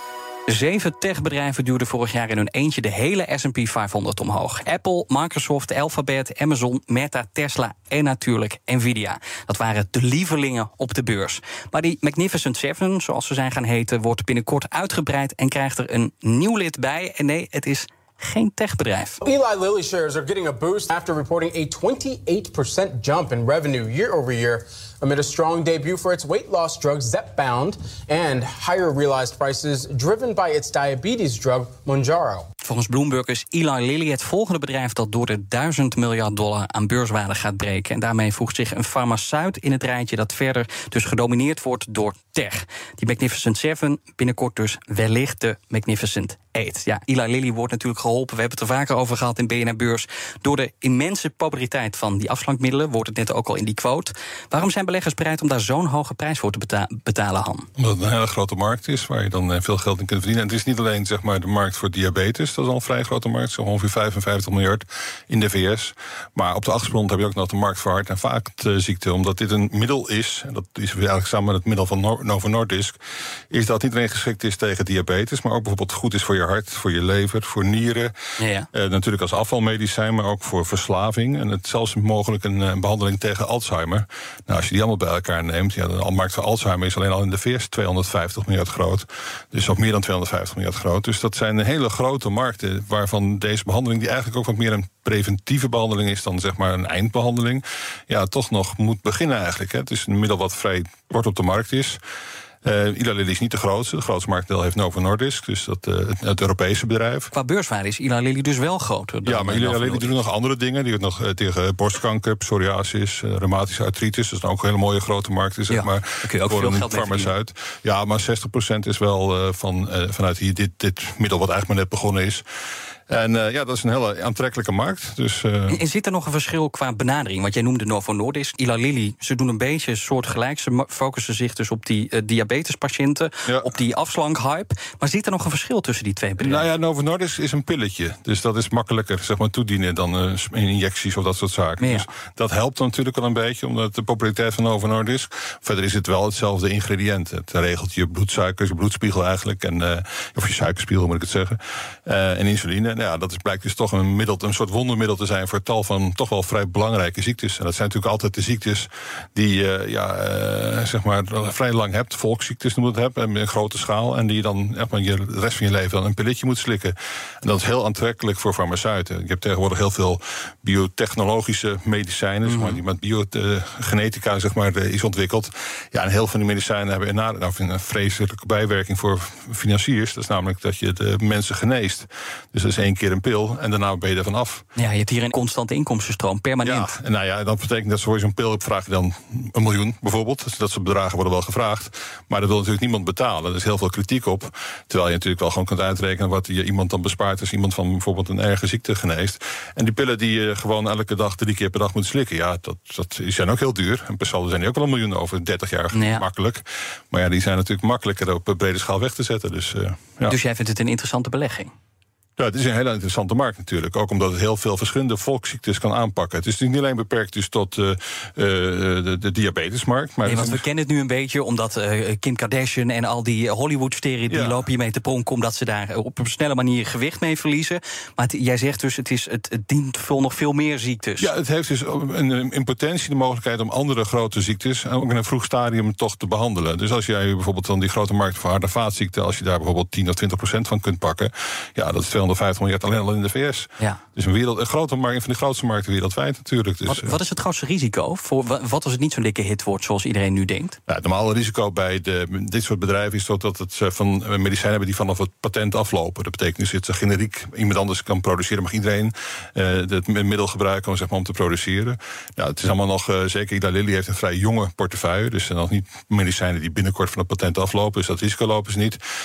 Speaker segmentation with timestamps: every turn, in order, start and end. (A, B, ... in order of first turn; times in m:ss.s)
0:00.5-0:19.2 A
0:19.2-0:32.5 B
0:32.6-0:57.7 A
0:57.8-1:13.0 C
1:13.5-1:18.1 C
1:18.4-1:18.7 A
1:18.7-1:42.0 C
1:42.6-1:47.3 C
1:47.3-1:50.1 A
1:49.2-2:02.4 C
1:55.7-1:57.3 A
2:03.1-2:05.8 C
2:05.7-2:16.6 A
2:16.4-3:04.6 C
2:21.8-2:22.0 A
2:52.4-2:52.8 A
3:04.8-3:07.0 A
3:06.6-3:30.4 C
3:25.9-3:26.2 A
3:30.3-3:31.7 A
3:32.4-3:40.6 C
3:40.2-3:51.3 A
3:44.3-3:44.6 C
3:51.2-4:07.1 C
4:06.8-4:10.8 A
4:10.9-4:29.0 C